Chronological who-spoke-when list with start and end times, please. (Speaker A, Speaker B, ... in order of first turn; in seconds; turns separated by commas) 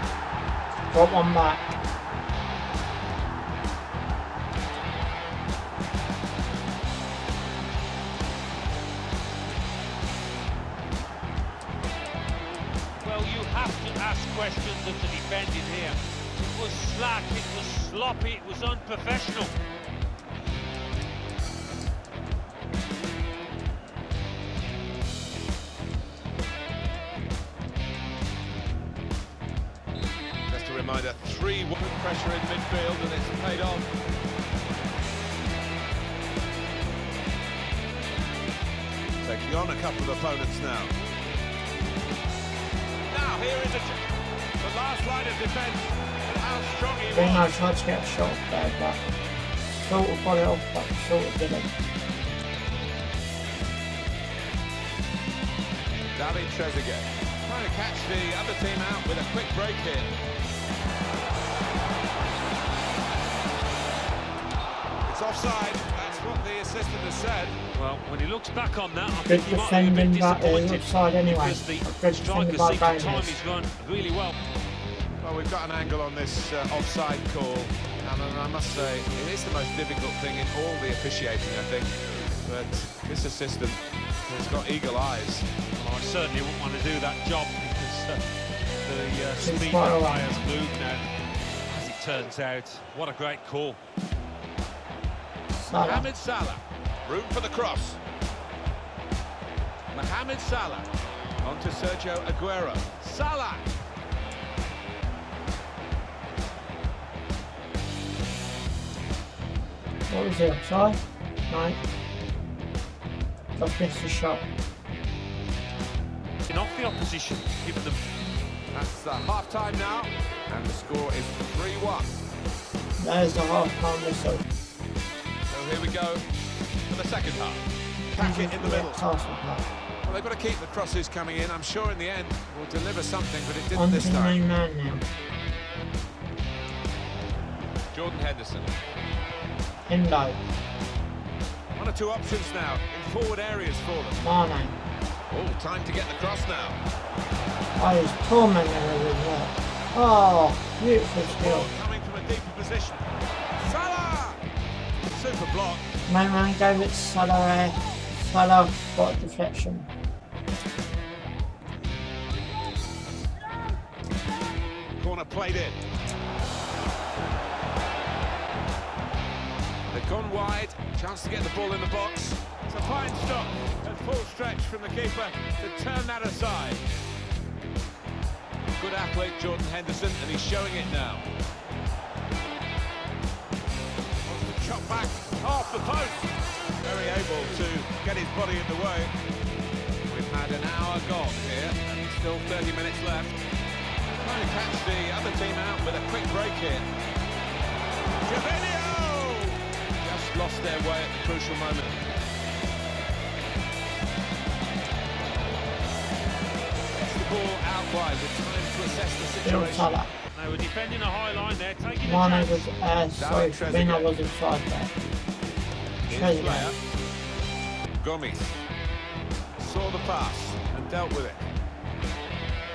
Speaker A: 0.9-1.8, Speaker B: 13.0-19.5, Speaker C: 30.5-33.9, Speaker C: 39.2-40.9, Speaker C: 43.1-44.0, Speaker C: 44.6-47.5, Speaker A: 47.1-49.0, Speaker A: 49.6-51.7, Speaker C: 56.1-60.1, Speaker C: 65.0-67.6, Speaker B: 67.7-74.4, Speaker A: 69.2-73.4, Speaker C: 75.2-85.5, Speaker B: 85.7-88.2, Speaker B: 88.8-91.0, Speaker A: 89.4-90.5, Speaker B: 91.7-93.8, Speaker A: 95.5-96.1, Speaker C: 95.6-98.0, Speaker C: 99.9-100.9, Speaker C: 101.4-103.7, Speaker A: 110.1-111.8, Speaker A: 113.6-114.4, Speaker B: 116.5-118.0, Speaker C: 118.7-122.1, Speaker A: 123.0-124.4, Speaker C: 125.4-126.2, Speaker C: 126.9-127.6, Speaker C: 128.1-129.0, Speaker A: 128.2-129.7, Speaker C: 130.0-134.4, Speaker A: 133.7-135.0, Speaker C: 137.9-138.7, Speaker A: 139.8-140.4, Speaker C: 141.7-144.2, Speaker A: 144.2-144.8, Speaker C: 145.3-146.8, Speaker A: 147.8-151.7, Speaker C: 151.2-154.4, Speaker C: 155.1-155.8, Speaker A: 156.1-159.9, Speaker C: 165.0-165.8, Speaker C: 169.9-176.9, Speaker C: 178.8-181.3, Speaker C: 184.2-186.3, Speaker C: 186.8-189.1, Speaker C: 190.0-193.4, Speaker C: 194.2-196.8, Speaker C: 198.2-201.9, Speaker C: 206.9-209.9, Speaker A: 209.4-210.1, Speaker B: 210.3-212.7, Speaker A: 212.0-214.9, Speaker C: 213.1-214.1, Speaker A: 216.1-216.7, Speaker C: 216.1-216.8, Speaker C: 218.0-218.6, Speaker C: 219.6-221.5